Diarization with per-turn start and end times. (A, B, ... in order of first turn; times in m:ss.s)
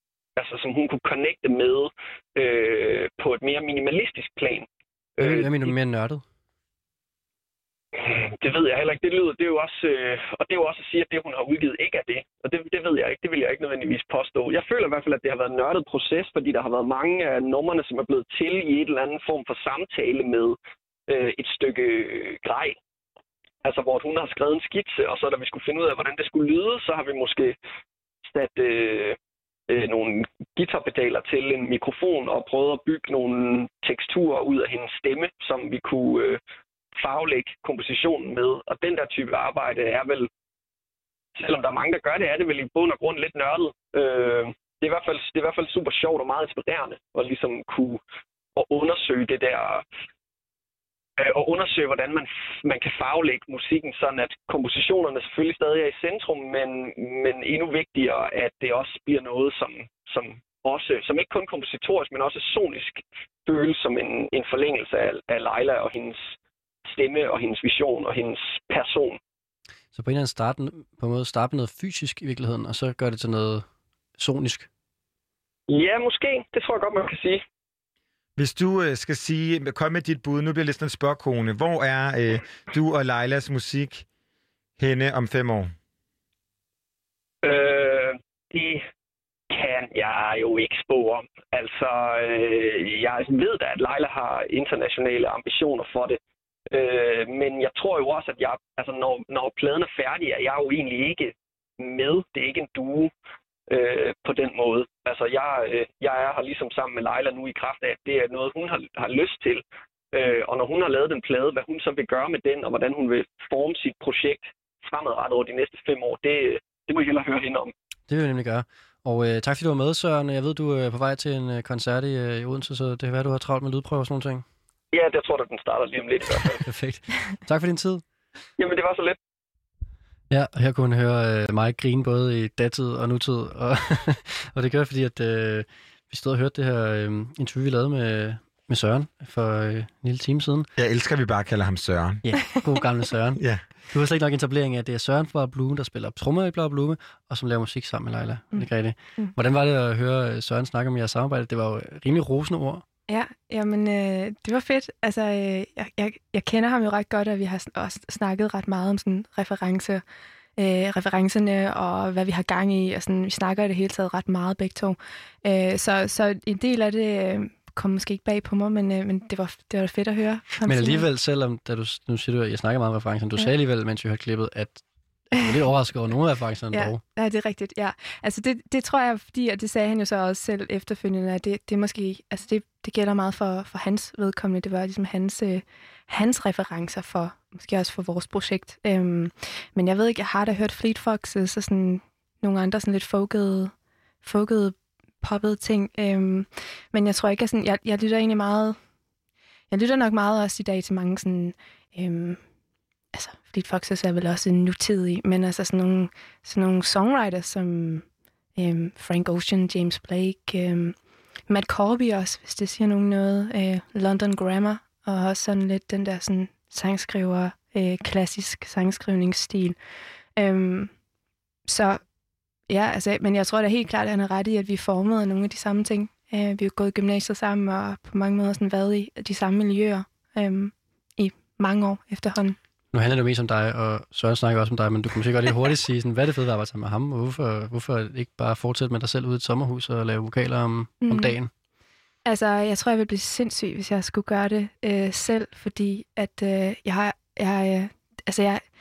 0:00.4-0:04.7 A
0:05.2-0:05.7 A
0:05.2-0:06.2 B
0:08.0-0:20.6 A
0:21.1-0:22.8 A
0:23.6-0:27.6 A
0:28.3-0:29.2 A
0:29.7-0:36.4 A
0:37.0-0:40.3 A
0:41.4-0:48.0 A
0:48.6-0:49.8 A
0:51.2-1:06.3 A
1:06.9-1:09.2 A
1:09.9-1:13.7 B
1:14.2-1:14.7 B
1:15.7-1:17.4 A
1:18.4-1:24.1 C
1:24.8-1:25.7 C
1:27.4-1:28.8 A
1:29.5-1:43.1 A
1:43.7-1:57.7 A
1:58.1-2:04.4 B
2:04.9-2:06.6 A
2:06.7-2:08.0 B
2:08.6-2:09.2 A
2:10.3-2:20.7 B
2:20.8-2:22.2 C
2:22.2-2:32.8 B
2:23.4-2:23.6 C
2:28.5-2:29.3 D
2:33.1-2:40.0 D
2:40.6-2:51.1 D
2:50.7-2:57.0 B
2:56.7-3:18.8 D
3:19.7-3:22.4 D
3:23.1-3:28.0 D
3:28.6-3:31.0 D
3:31.5-3:39.8 D
3:40.4-3:40.9 D
3:41.7-3:42.0 D
3:42.7-3:52.6 D
3:52.9-4:01.5 B
4:01.0-4:01.4 D
4:02.2-4:08.6 D